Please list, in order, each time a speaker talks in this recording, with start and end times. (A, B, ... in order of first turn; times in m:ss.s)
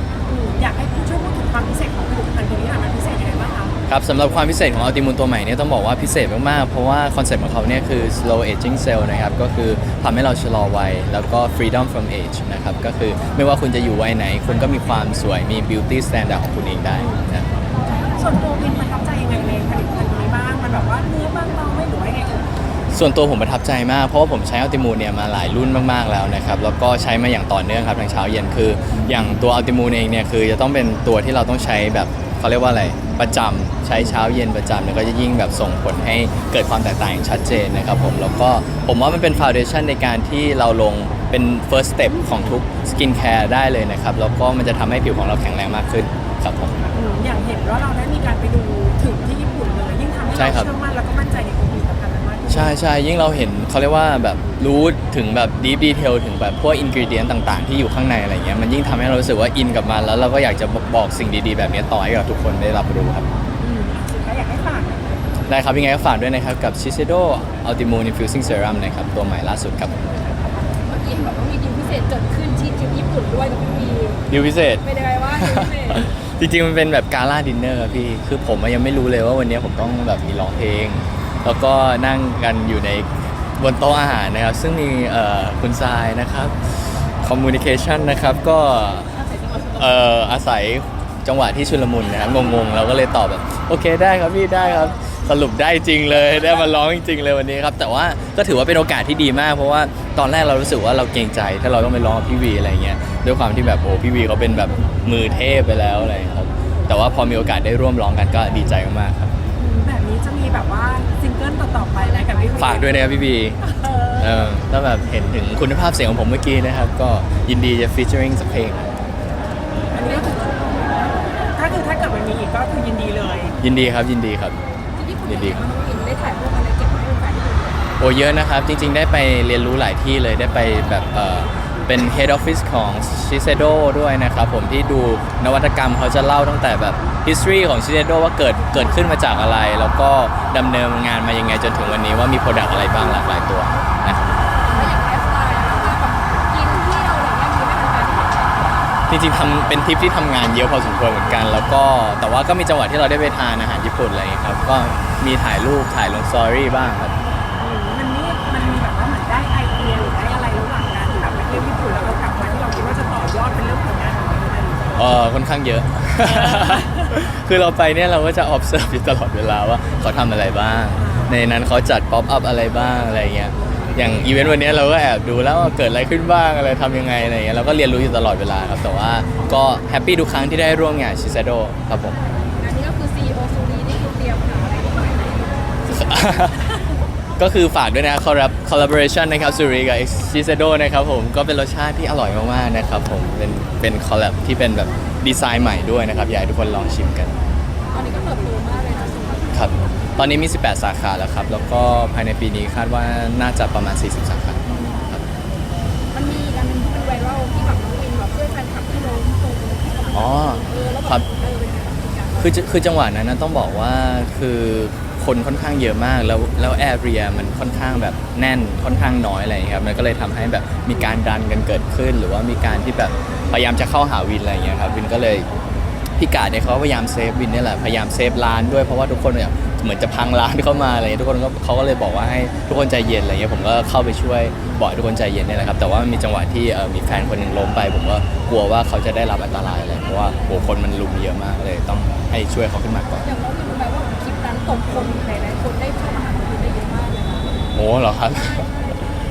0:00.3-0:03.7 A
0:03.9-0:17.5 B
0:18.1-0:22.5 A
0:22.9-0:46.9 B
0:46.9-0:52.8 A
0:50.4-0:50.7 B
0:52.5-1:03.3 B
1:03.6-1:05.0 A
1:05.5-1:10.0 B
1:10.8-1:14.2 C
1:14.3-1:29.1 B
1:14.8-1:16.1 C
1:29.8-1:49.3 B
1:49.6-1:53.0 A
1:52.1-1:53.1 C
1:52.6-1:53.6 B
1:53.7-1:54.2 A
1:54.2-1:58.8 B
1:59.9-2:01.0 A
1:59.9-2:01.2 C
2:01.5-2:03.6 A
2:03.6-2:04.6 B
2:05.0-2:08.0 C
2:05.3-2:05.6 B
2:08.0-2:24.3 B
2:24.7-2:28.7 C
2:29.1-2:37.1 B
2:37.6-2:45.0 A
2:45.0-3:02.2 B
2:46.3-2:47.1 A
2:51.0-2:51.3 A
3:02.5-3:06.1 C
3:05.9-3:06.6 B
3:07.4-3:17.3 B
3:17.9-3:20.2 C
3:19.5-3:25.2 B
3:24.7-3:25.1 C
3:26.1-3:32.6 C
3:30.1-3:31.2 B
3:32.4-3:45.5 B
3:46.2-4:03.2 B
4:03.2-4:07.7 C
4:07.8-4:08.7 B
4:08.3-4:09.0 C